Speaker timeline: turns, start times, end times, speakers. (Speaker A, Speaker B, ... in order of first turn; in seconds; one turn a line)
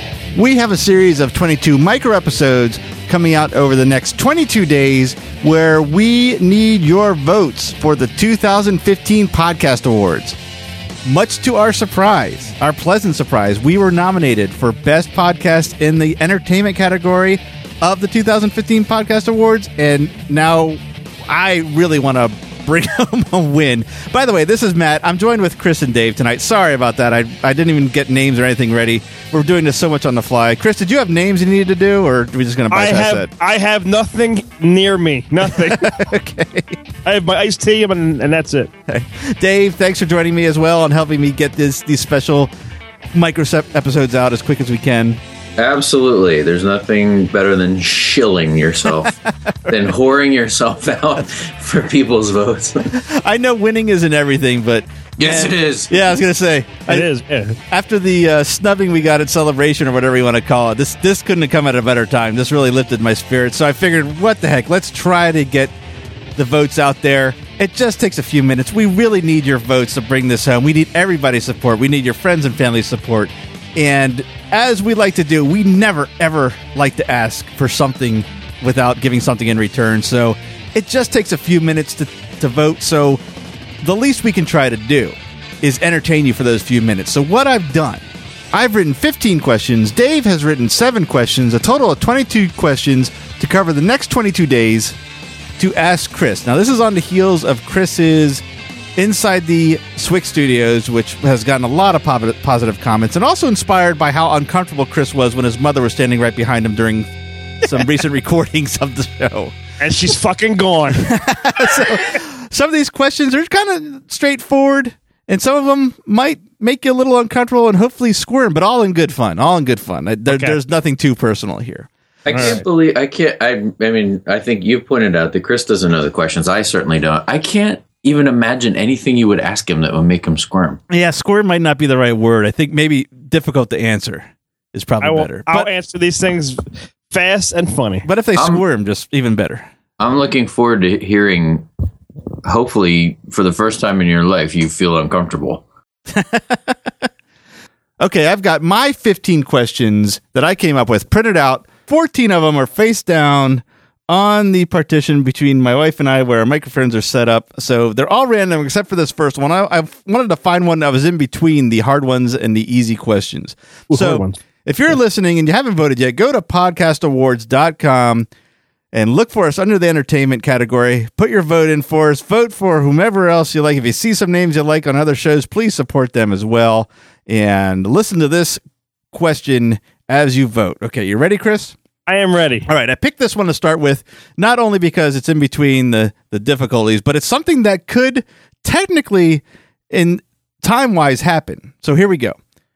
Speaker A: 0.3-10.4
Speaker A: 11.1-33.3
Speaker B: 32.7-35.9
Speaker A: 35.5-36.8
Speaker B: 37.0-38.7
Speaker A: 38.9-42.5
Speaker A: 43.1-45.2
Speaker C: 45.6-49.1
Speaker A: 49.2-49.5
Speaker C: 49.7-52.9
Speaker A: 52.9-57.1
Speaker C: 55.2-55.9
Speaker B: 56.9-57.6
Speaker A: 57.7-65.7
Speaker A: 66.4-83.2
Speaker A: 83.8-95.0
Speaker A: 95.6-98.4
Speaker A: 99.0-107.1
Speaker A: 107.6-109.5
Speaker B: 109.8-111.1
Speaker A: 110.9-121.9
Speaker B: 120.3-120.6
Speaker C: 122.2-130.8
Speaker B: 122.3-122.6
Speaker A: 130.9-135.7
Speaker B: 135.0-138.1
Speaker A: 138.0-139.7
Speaker C: 138.3-138.6
Speaker C: 140.0-141.7
Speaker C: 142.4-145.6
Speaker A: 146.1-146.8
Speaker A: 148.0-168.3
Speaker B: 163.9-164.3
Speaker A: 168.9-178.6
Speaker A: 179.1-181.8
Speaker B: 182.1-182.7
Speaker A: 182.7-192.4